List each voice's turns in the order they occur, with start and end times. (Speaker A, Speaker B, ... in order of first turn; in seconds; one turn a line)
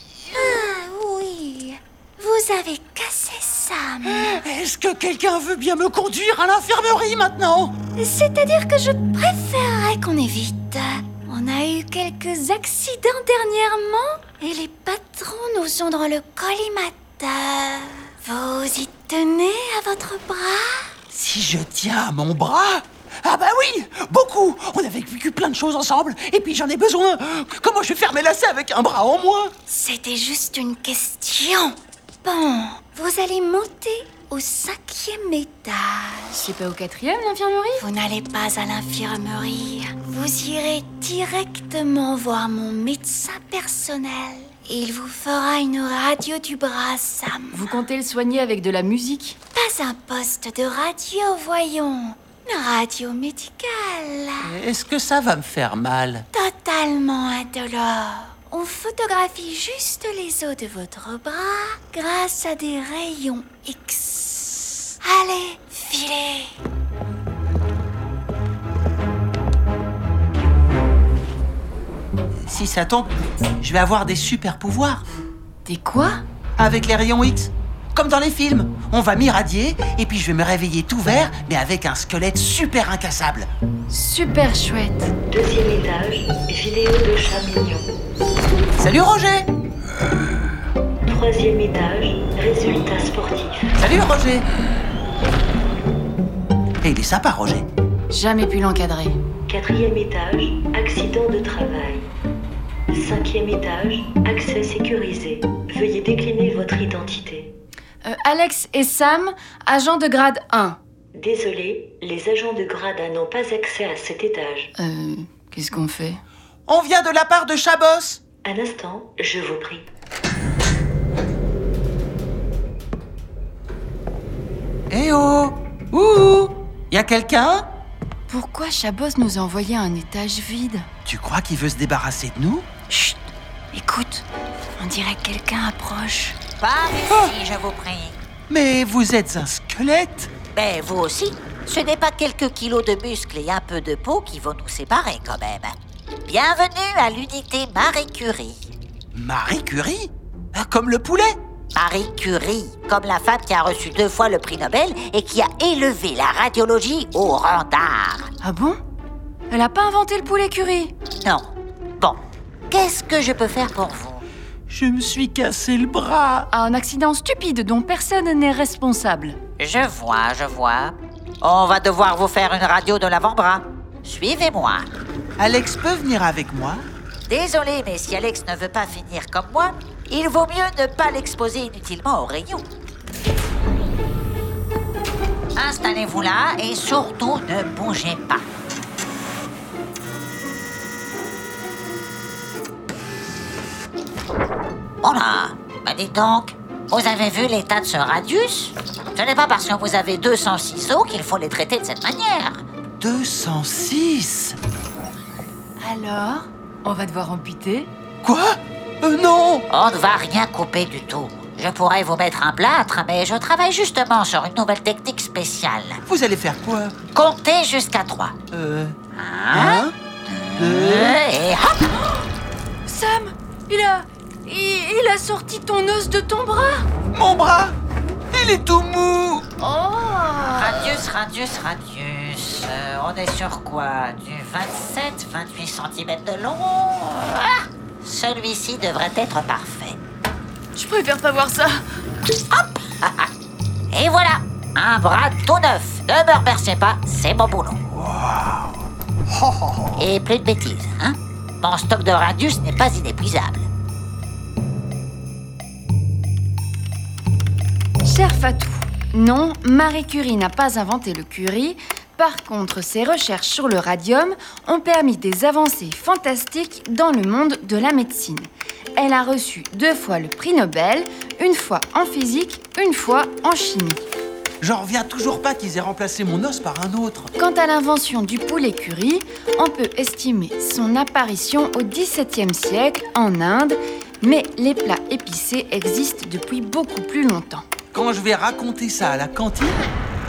Speaker A: 0.3-4.4
Speaker B: 4.1-7.8
Speaker A: 8.0-21.0
Speaker B: 21.1-29.5
Speaker A: 29.7-36.5
Speaker C: 36.4-37.8
Speaker A: 37.8-47.8
Speaker C: 47.5-49.4
Speaker A: 49.5-54.6
Speaker B: 54.4-56.2
Speaker A: 56.3-66.5
Speaker B: 72.4-75.0
Speaker C: 75.7-76.2
Speaker B: 76.6-83.5
Speaker C: 83.9-85.1
Speaker D: 85.3-87.9
Speaker B: 88.8-89.5
Speaker D: 91.1-93.8
Speaker B: 93.8-94.5
Speaker B: 96.8-97.7
Speaker C: 98.1-99.2
Speaker D: 99.5-102.1
Speaker D: 102.9-107.5
Speaker C: 108.0-110.8
Speaker D: 111.2-114.7
Speaker C: 114.8-116.2
Speaker B: 116.7-118.2
Speaker D: 118.5-119.9
Speaker B: 124.9-127.7
Speaker C: 128.3-130.9
Speaker B: 131.1-132.7
Speaker C: 133.7-134.2
Speaker C: 134.8-136.4
Speaker E: 136.6-138.2
Speaker B: 137.1-137.3
Speaker B: 138.5-140.3
Speaker E: 140.6-145.8
Speaker E: 146.3-148.7
Speaker B: 149.1-151.4
Speaker E: 151.7-158.3
Speaker C: 158.4-158.8
Speaker C: 159.5-160.9
Speaker E: 161.2-164.3
Speaker B: 164.7-166.5
Speaker C: 166.5-169.4
Speaker E: 169.6-174.9
Speaker B: 175.4-176.8
Speaker E: 177.3-182.7
Speaker E: 185.6-188.5
Speaker E: 195.0-202.6
Speaker B: 203.0-204.6
Speaker C: 205.8-207.9
Speaker B: 208.2-209.7
Speaker E: 209.7-216.0
Speaker B: 216.1-217.0
Speaker E: 217.1-218.3
Speaker B: 218.5-219.0
Speaker E: 219.2-221.9
Speaker B: 219.5-220.0
Speaker B: 220.6-221.2
Speaker C: 222.9-226.9
Speaker B: 227.1-227.8
Speaker B: 228.3-229.4
Speaker C: 229.6-230.6
Speaker E: 230.5-240.0
Speaker C: 240.8-241.8
Speaker E: 242.5-243.3
Speaker E: 243.9-247.8
Speaker B: 248.0-248.7
Speaker B: 249.3-250.0
Speaker E: 250.0-253.7
Speaker C: 258.0-274.0
Speaker B: 274.6-277.3
Speaker C: 277.4-287.7
Speaker B: 287.9-289.9